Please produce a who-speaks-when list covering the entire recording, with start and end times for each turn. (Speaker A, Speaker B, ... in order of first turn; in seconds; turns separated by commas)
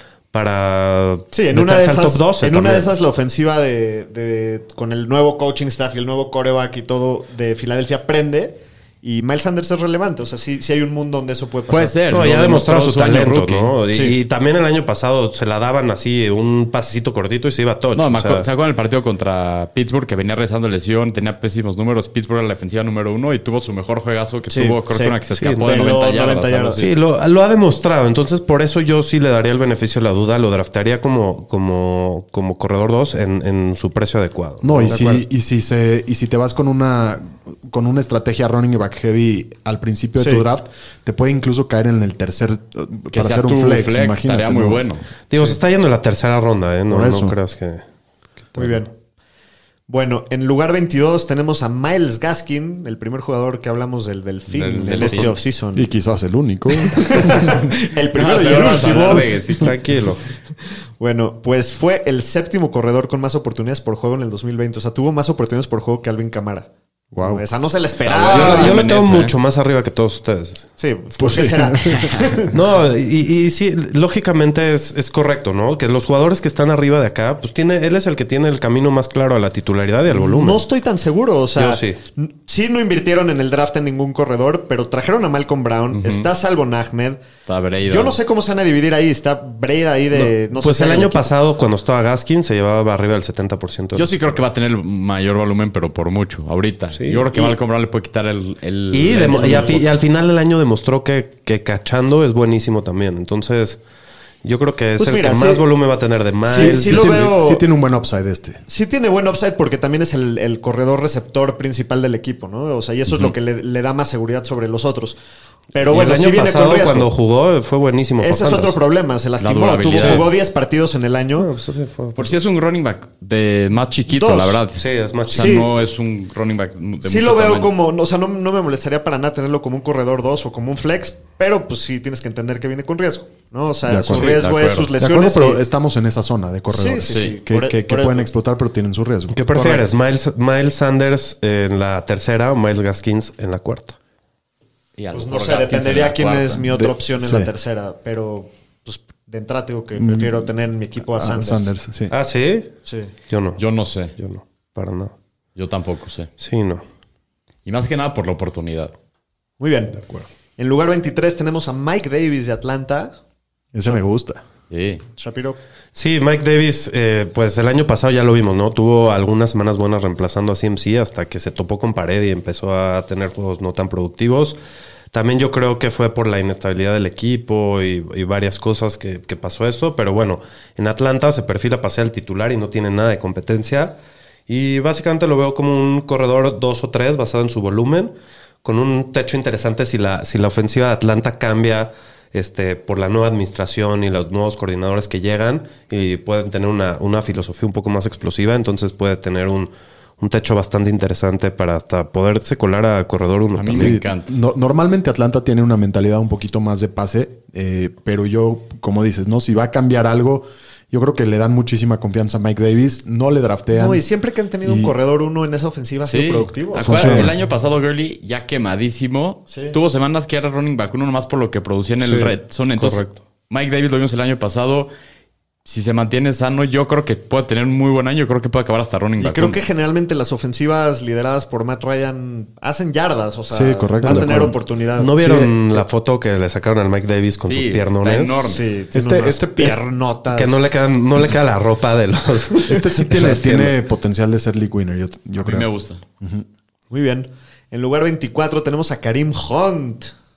Speaker A: 0.3-2.9, Speaker B: 1.3-12.0, Speaker C: 11.7-13.8, Speaker A: 12.1-18.5, Speaker B: 13.9-14.2, Speaker C: 17.9-26.9, Speaker B: 24.5-26.9, Speaker A: 25.3-25.9, Speaker A: 26.8-35.2, Speaker D: 34.6-44.9, Speaker B: 40.2-40.5, Speaker C: 43.1-45.1, Speaker A: 45.3-47.9, Speaker D: 46.9-47.4, Speaker A: 48.4-48.8, Speaker B: 48.6-48.9, Speaker B: 49.9-55.9, Speaker C: 54.5-55.4, Speaker D: 55.8-57.7, Speaker B: 56.8-59.3, Speaker C: 58.1-59.8, Speaker A: 59.6-60.2, Speaker B: 61.0-66.7, Speaker D: 67.1-67.4, Speaker B: 67.2-68.8, Speaker C: 68.0-69.3, Speaker A: 68.3-70.7, Speaker B: 70.8-72.5, Speaker D: 71.2-72.2, Speaker A: 72.5-80.6, Speaker B: 80.1-87.2, Speaker A: 81.6-82.0, Speaker C: 85.9-86.3, Speaker C: 87.5-88.2, Speaker B: 87.8-91.3, Speaker A: 90.1-94.4, Speaker C: 94.0-99.9, Speaker A: 97.0-97.3, Speaker A: 98.9-103.8, Speaker B: 99.4-99.8, Speaker A: 104.4-107.3, Speaker B: 105.0-105.7, Speaker B: 106.4-107.6, Speaker D: 106.5-108.6, Speaker B: 108.7-115.2, Speaker B: 115.7-117.1, Speaker A: 115.9-118.8, Speaker B: 118.2-121.5, Speaker C: 119.4-120.3, Speaker A: 120.0-120.3, Speaker A: 121.4-122.4, Speaker C: 122.2-127.7, Speaker B: 124.1-124.6, Speaker A: 124.8-125.6, Speaker B: 125.3-125.7, Speaker B: 127.0-135.6, Speaker D: 133.9-134.4, Speaker C: 134.1-134.9, Speaker D: 135.0-139.7, Speaker B: 136.7-138.3, Speaker C: 137.1-137.4, Speaker A: 139.3-144.0, Speaker B: 139.6-139.8, Speaker C: 145.0-146.6, Speaker B: 145.1-151.8, Speaker D: 146.6-147.5, Speaker D: 150.0-150.5, Speaker D: 151.0-152.1, Speaker A: 152.1-152.7, Speaker B: 152.8-153.1, Speaker A: 153.3-153.6, Speaker C: 153.6-154.2, Speaker A: 154.2-155.1, Speaker C: 155.6-156.3, Speaker A: 156.4-156.8, Speaker C: 157.7-158.9, Speaker B: 159.6-160.0, Speaker A: 160.0-160.3, Speaker B: 160.6-163.2, Speaker D: 163.7-164.4, Speaker C: 164.7-165.0, Speaker B: 165.2-165.6, Speaker A: 165.9-174.6, Speaker A: 175.1-184.0, Speaker A: 184.5-204.0, Speaker C: 203.6-204.3, Speaker D: 203.7-214.0, Speaker B: 213.7-217.2, Speaker D: 214.6-214.9, Speaker C: 216.1-224.9, Speaker D: 216.8-217.3, Speaker B: 219.5-219.8, Speaker A: 222.0-223.2, Speaker C: 225.7-229.6, Speaker B: 229.2-235.1, Speaker D: 233.5-234.6, Speaker A: 234.1-238.6, Speaker D: 235.2-235.8, Speaker C: 237.5-238.7, Speaker B: 238.4-240.6, Speaker D: 238.9-239.8, Speaker A: 240.3-243.7, Speaker D: 242.7-245.7, Speaker C: 245.4-246.0, Speaker D: 246.2-246.5, Speaker B: 246.9-250.1